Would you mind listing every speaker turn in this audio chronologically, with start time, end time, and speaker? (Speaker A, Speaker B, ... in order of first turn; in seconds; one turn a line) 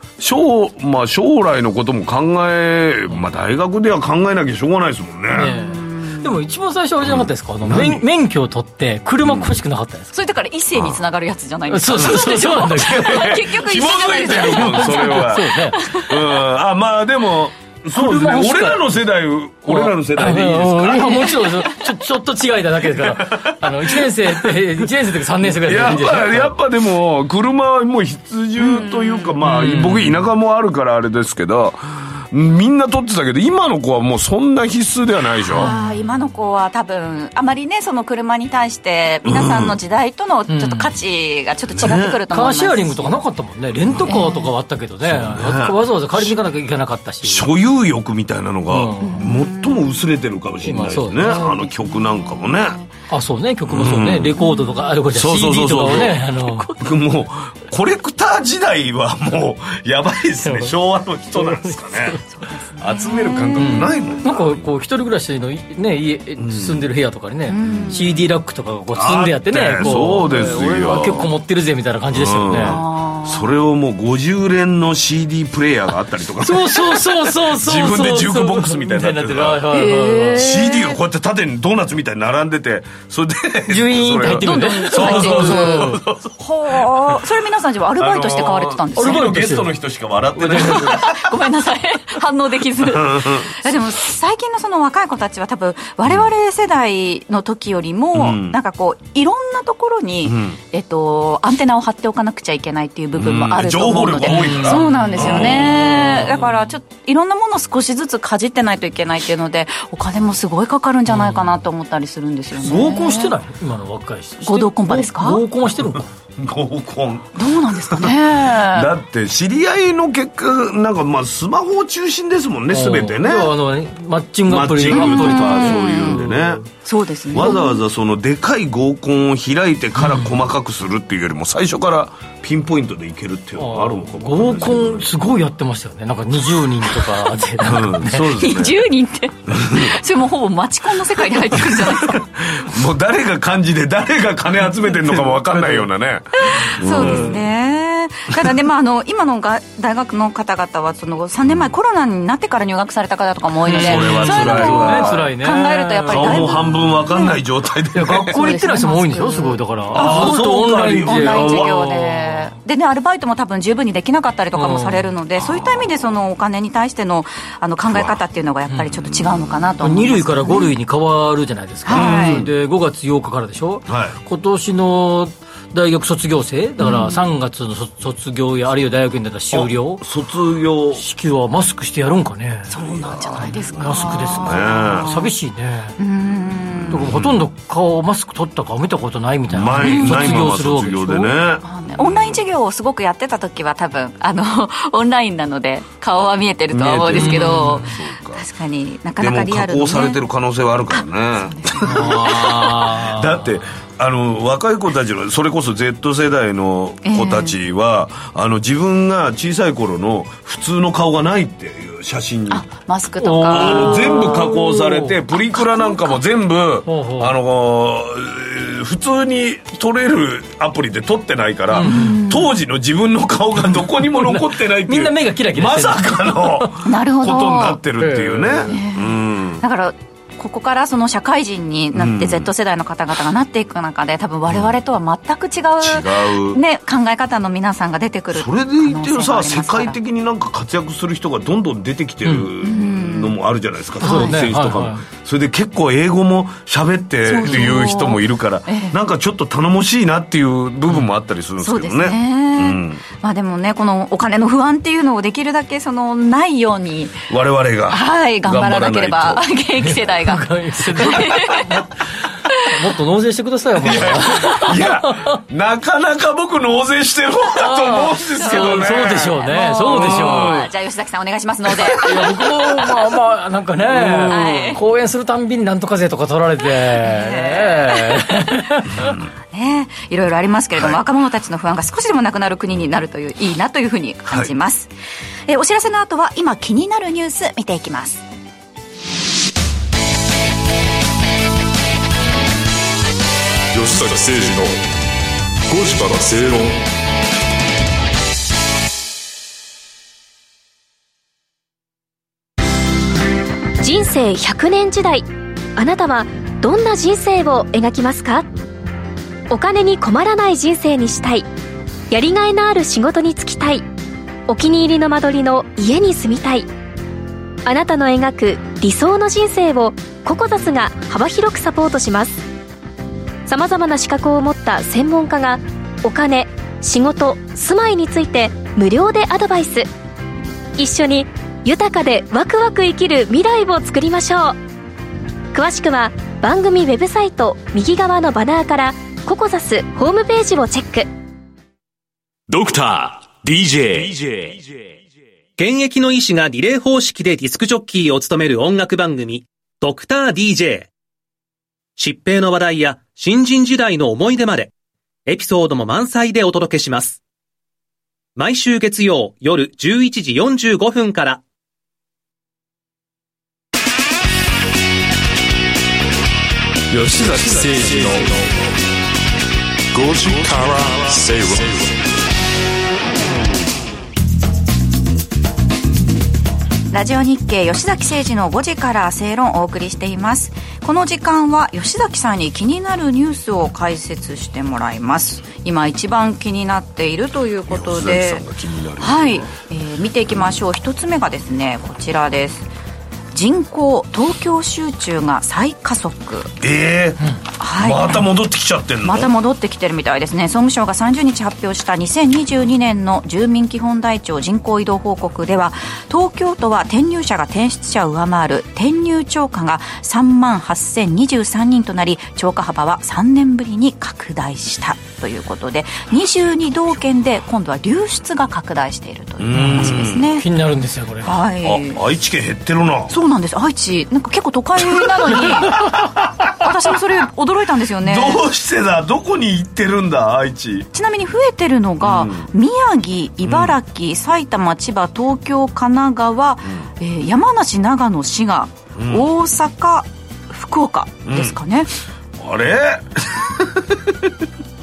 Speaker A: 0.2-5.5
Speaker B: 5.3-10.1
Speaker C: 5.5-6.4
Speaker A: 7.0-8.1
Speaker A: 9.2-9.5
Speaker C: 10.1-16.1
Speaker B: 11.7-13.3
Speaker A: 11.9-21.4
Speaker B: 14.5-15.9
Speaker B: 17.9-18.9
Speaker B: 19.6-26.6
Speaker C: 21.1-21.6
Speaker A: 22.9-24.4
Speaker A: 25.5-35.7
Speaker C: 28.6-29.4
Speaker B: 29.4-30.2
Speaker B: 35.5-35.8
Speaker C: 35.5-43.2
Speaker A: 39.2-39.8
Speaker B: 40.5-40.9
Speaker A: 41.7-42.2
Speaker B: 41.8-47.5
Speaker A: 43.8-44.2
Speaker C: 44.1-44.5
Speaker A: 45.0-46.4
Speaker A: 47.2-52.8
Speaker B: 48.7-49.3
Speaker C: 49.0-50.0
Speaker B: 50.6-51.5
Speaker C: 51.3-52.9
Speaker B: 53.1-56.7
Speaker A: 53.7-54.4
Speaker A: 55.1-62.2
Speaker B: 60.4-60.7
Speaker B: 61.4-62.2
Speaker C: 62.3-63.9
Speaker A: 62.8-64.7
Speaker B: 63.6-72.8
Speaker A: 66.4-66.8
Speaker C: 67.5-68.3
Speaker A: 69.0-71.3
Speaker C: 70.3-70.5
Speaker A: 72.1-87.2
Speaker C: 72.6-73.5
Speaker B: 76.4-80.5
Speaker C: 79.7-81.0
Speaker B: 83.7-86.0
Speaker C: 84.4-89.4
Speaker A: 88.0-91.4
Speaker B: 89.0-89.7
Speaker B: 90.4-91.0
Speaker C: 90.6-113.3
Speaker A: 92.8-93.8
Speaker A: 98.1-98.6
Speaker A: 100.2-100.6
Speaker A: 103.2-106.3
Speaker B: 104.2-106.5
Speaker B: 111.1-111.5
Speaker B: 112.6-116.1
Speaker C: 114.4-115.4
Speaker A: 116.4-123.5
Speaker C: 117.4-118.9
Speaker B: 122.7-126.7
Speaker A: 124.5-126.7
Speaker C: 124.9-127.8
Speaker A: 127.3-135.1
Speaker B: 130.0-130.4
Speaker B: 133.6-138.2
Speaker A: 137.6-138.8
Speaker C: 138.3-142.2
Speaker A: 139.5-139.9
Speaker A: 141.6-147.4
Speaker B: 145.1-145.9
Speaker C: 146.5-157.3
Speaker B: 146.9-147.4
Speaker A: 151.5-151.7
Speaker B: 153.7-156.9
Speaker A: 153.7-155.3
Speaker A: 156.1-158.5
Speaker B: 157.9-162.5
Speaker C: 158.2-170.7
Speaker A: 159.9-161.8
Speaker B: 164.5-165.1
Speaker A: 165.4-166.1
Speaker A: 167.8-168.2
Speaker A: 168.9-169.8
Speaker B: 169.8-180.0
Speaker C: 171.8-172.4
Speaker A: 171.9-172.5
Speaker A: 173.9-174.2
Speaker C: 176.8-177.2
Speaker A: 179.5-181.0
Speaker B: 181.0-182.7
Speaker C: 182.7-185.3
Speaker A: 182.8-185.2
Speaker B: 183.4-186.0
Speaker C: 186.0-187.0
Speaker A: 186.7-187.4
Speaker B: 186.9-191.3
Speaker A: 189.5-192.4
Speaker C: 189.8-190.4
Speaker C: 191.6-200.2
Speaker A: 196.7-198.5
Speaker B: 197.1-197.9
Speaker A: 199.2-212.7
Speaker C: 200.9-202.4
Speaker B: 201.8-203.5
Speaker C: 207.1-207.6
Speaker C: 212.5-214.5
Speaker B: 213.2-215.1
Speaker A: 213.5-229.6
Speaker C: 215.5-216.2
Speaker B: 216.9-217.3
Speaker B: 221.7-222.2
Speaker C: 221.8-222.5
Speaker B: 223.7-226.7
Speaker C: 226.8-227.8
Speaker B: 228.0-228.7
Speaker C: 228.7-240.0
Speaker A: 231.9-232.5
Speaker A: 235.8-236.6
Speaker A: 238.3-253.0
Speaker C: 242.6-243.4
Speaker C: 244.0-244.4
Speaker B: 244.0-245.1
Speaker C: 247.2-248.9
Speaker B: 247.5-247.7
Speaker C: 251.6-257.2
Speaker A: 257.3-259.5
Speaker C: 257.9-261.7
Speaker B: 259.8-261.9
Speaker A: 261.1-261.4
Speaker B: 262.6-265.4
Speaker A: 263.8-270.7
Speaker B: 267.6-270.6
Speaker C: 268.4-272.4
Speaker A: 271.7-272.6
Speaker B: 271.9-279.1
Speaker A: 273.9-274.8
Speaker C: 274.0-274.8
Speaker C: 276.8-278.5
Speaker A: 279.0-279.2
Speaker C: 279.5-284.9
Speaker A: 280.8-281.0
Speaker C: 285.5-288.2
Speaker D: 293.7-294.8
Speaker D: 295.7-296.8
Speaker E: 303.8-308.5
Speaker E: 309.5-311.5
Speaker E: 312.1-313.9
Speaker E: 314.5-316.7
Speaker E: 317.6-322.4
Speaker E: 323.5-329.9
Speaker E: 330.8-334.6
Speaker E: 335.5-341.1
Speaker F: 345.6-350.9
Speaker F: 352.0-354.7
Speaker F: 355.3-357.2
Speaker F: 358.4-361.4
Speaker D: 366.9-368.7
Speaker D: 369.9-372.0
Speaker C: 376.9-388.4
Speaker A: 387.7-389.5
Speaker C: 389.0-392.7
Speaker C: 393.3-396.5
Speaker A: 396.6-397.2
Speaker C: 397.6-398.2
Speaker A: 397.8-399.3
Speaker C: 399.0-420.5
Speaker A: 419.4-420.3
Speaker B: 419.5-421.4
Speaker C: 421.2-422.0
Speaker A: 421.6-423.1
Speaker C: 423.1-428.4
Speaker A: 424.8-426.3
Speaker A: 428.0-430.9
Speaker C: 430.9-441.9
Speaker A: 432.0-432.5
Speaker A: 433.4-433.8
Speaker A: 439.0-439.3
Speaker A: 441.3-441.6
Speaker A: 442.4-444.4